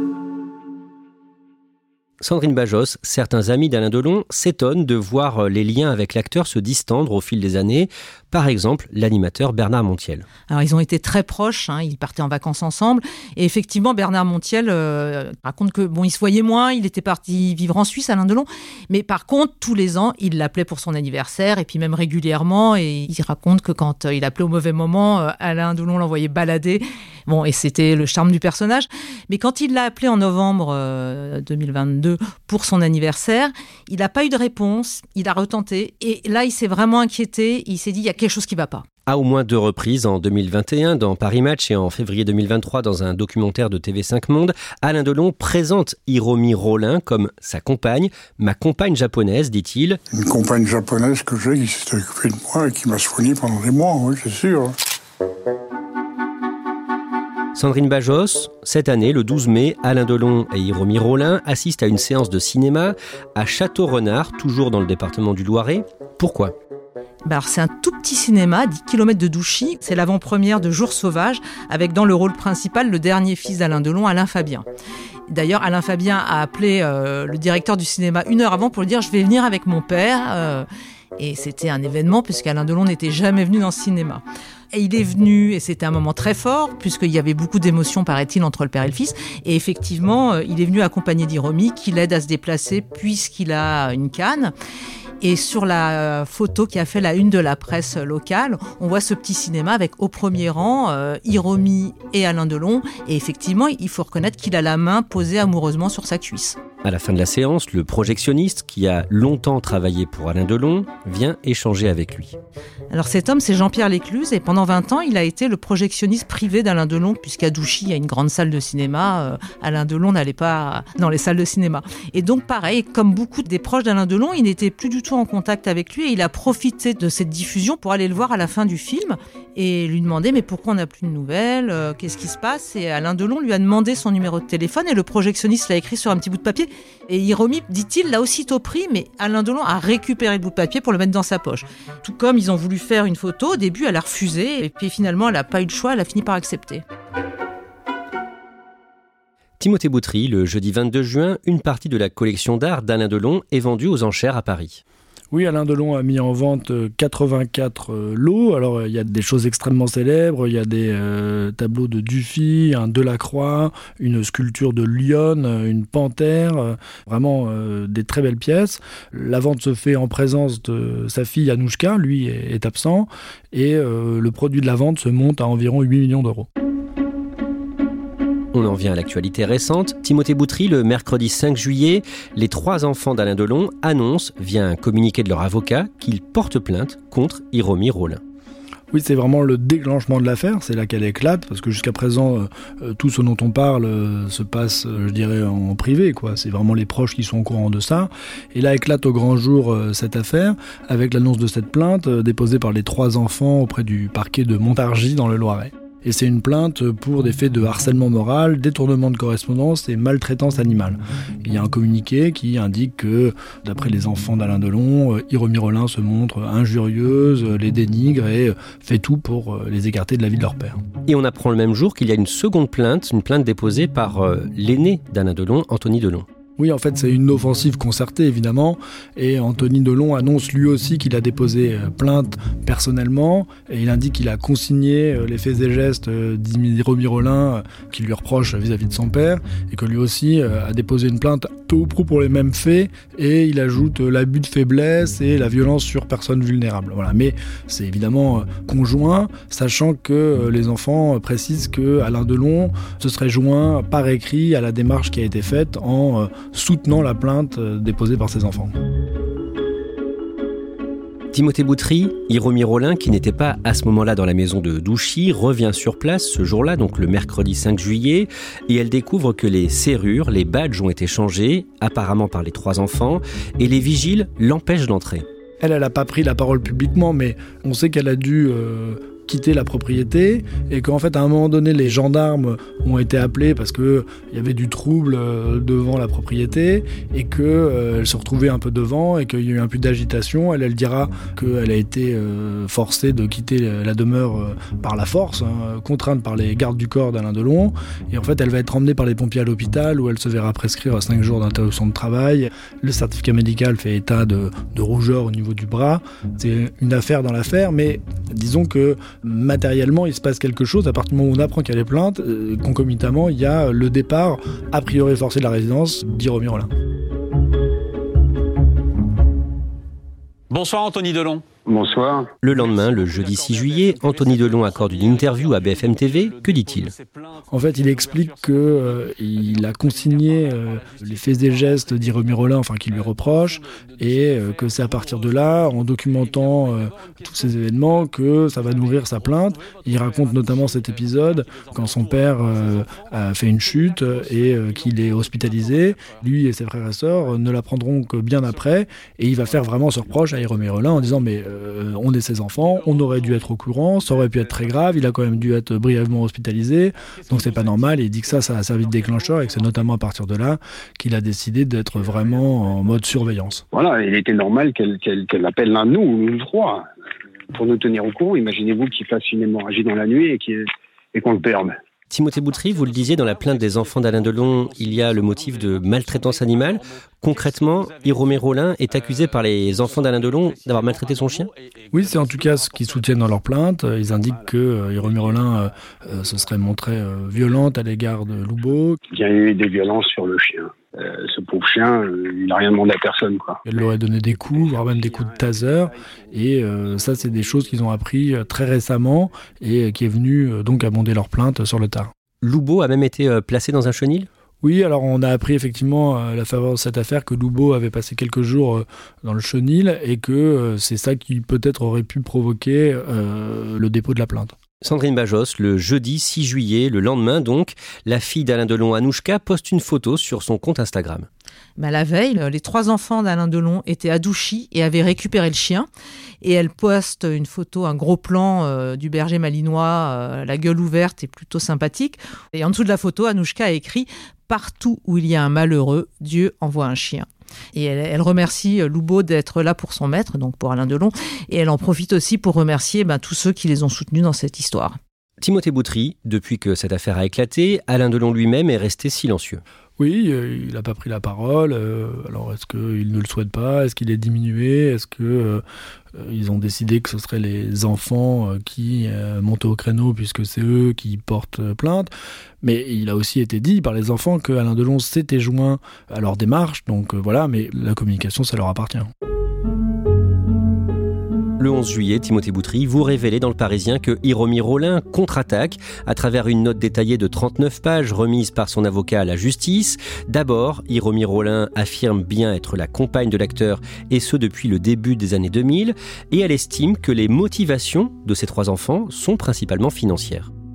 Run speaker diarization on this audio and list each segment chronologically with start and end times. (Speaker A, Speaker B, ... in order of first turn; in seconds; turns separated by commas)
Speaker A: 2.2-10.3, Speaker B: 10.5-38.9, Speaker A: 39.1-50.0, Speaker C: 50.1-54.7, Speaker A: 57.5-66.5, Speaker B: 67.2-74.7, Speaker B: 75.3-80.7, Speaker B: 81.2-94.5, Speaker B: 95.2-106.6, Speaker A: 106.8-112.4, Speaker B: 112.9-146.8, Speaker A: 149.6-154.8, Speaker D: 155.3-176.5, Speaker A: 178.5-188.2, Speaker D: 188.9-220.8, Speaker A: 221.1-226.3, Speaker D: 226.6-258.7, Speaker A: 261.3-275.2, Speaker D: 275.6-316.7, Speaker E: 320.5-321.4, Speaker F: 321.7-322.3, Speaker A: 322.4-326.9, Speaker E: 322.5-347.7, Speaker D: 327.5-363.6, Speaker E: 348.3-351.6, Speaker E: 352.5-355.4, Speaker E: 357.0-360.0, Speaker E: 361.9-363.5, Speaker F: 363.7-366.9, Speaker F: 367.5-371.8, Speaker A: 372.1-381.5, Speaker E: 372.3-383.6, Speaker D: 381.9-389.0, Speaker E: 384.1-387.8, Speaker F: 389.1-393.6, Speaker D: 393.7-402.1, Speaker E: 393.9-396.2, Speaker E: 396.8-399.0, Speaker A: 402.4-404.3, Speaker D: 404.6-414.6, Speaker A: 414.8-421.3, Speaker B: 421.8-425.9, Speaker B: 426.4-445.0, Speaker A: 445.4-449.6, Speaker D: 450.0-455.6, Speaker D: 456.1-462.1, Speaker D: 462.6-469.1, Speaker A: 471.6-490.5